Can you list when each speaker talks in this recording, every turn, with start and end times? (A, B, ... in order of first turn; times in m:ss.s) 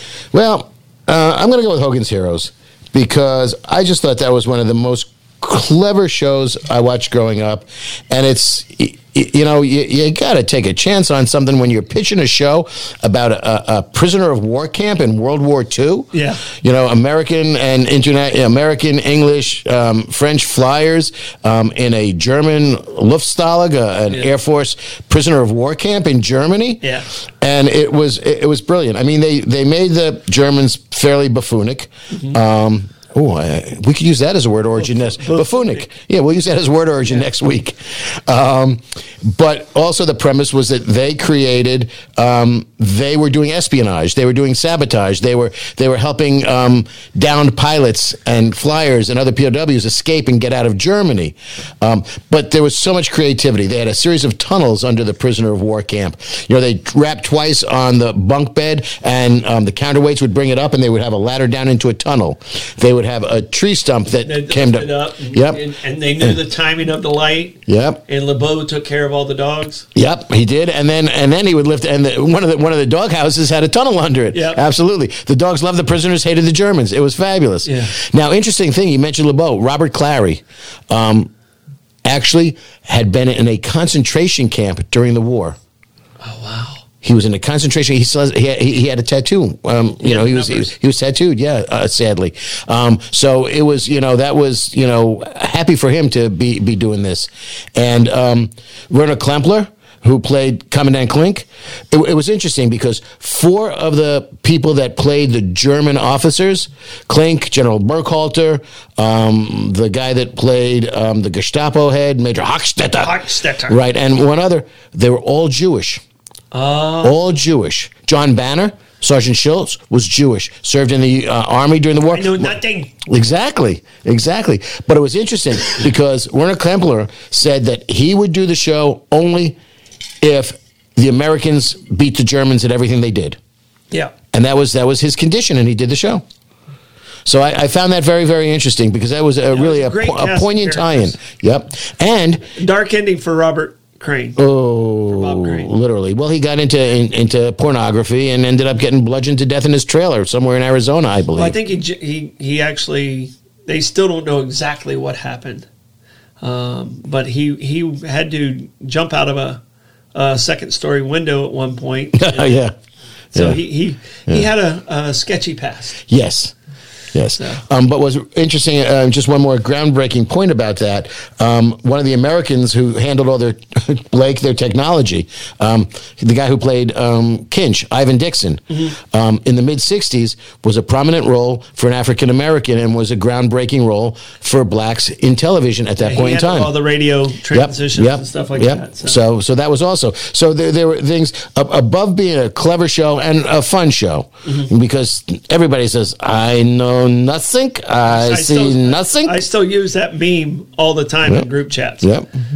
0:00.3-0:26.8 A
0:16.1-0:16.4 B
0:27.4-1:05.6 A
0:32.1-0:32.4 B
0:34.8-0:35.8 B
1:04.2-1:09.8 B
1:07.7-1:08.0 A
1:09.9-1:21.3 A
1:14.3-1:14.6 B
1:17.6-1:17.9 B
1:22.0-1:25.6 A
1:26.2-1:26.8 B
1:27.0-1:56.0 A
1:30.0-1:30.7 B
1:53.0-1:53.8 B
1:56.5-1:57.2 B
1:57.0-2:09.6 A
2:02.1-2:02.9 B
2:10.2-2:13.4 A
2:14.3-2:16.2 A
2:17.2-2:22.4 A
2:19.5-2:21.2 B
2:22.6-2:24.4 B
2:24.4-2:31.6 A
2:25.1-2:25.7 B
2:31.4-2:35.6 B
2:36.4-2:39.6 B
2:40.1-2:42.6 B
2:42.1-2:42.7 A
2:43.3-2:46.0 B
2:43.3-2:43.6 A
2:46.1-2:46.5 A
2:47.1-3:06.7 A
2:47.4-2:47.6 B
3:06.0-3:09.2 B
3:07.5-3:19.4 A
3:14.4-3:14.7 B
3:18.1-3:22.1 B
3:22.0-3:22.3 A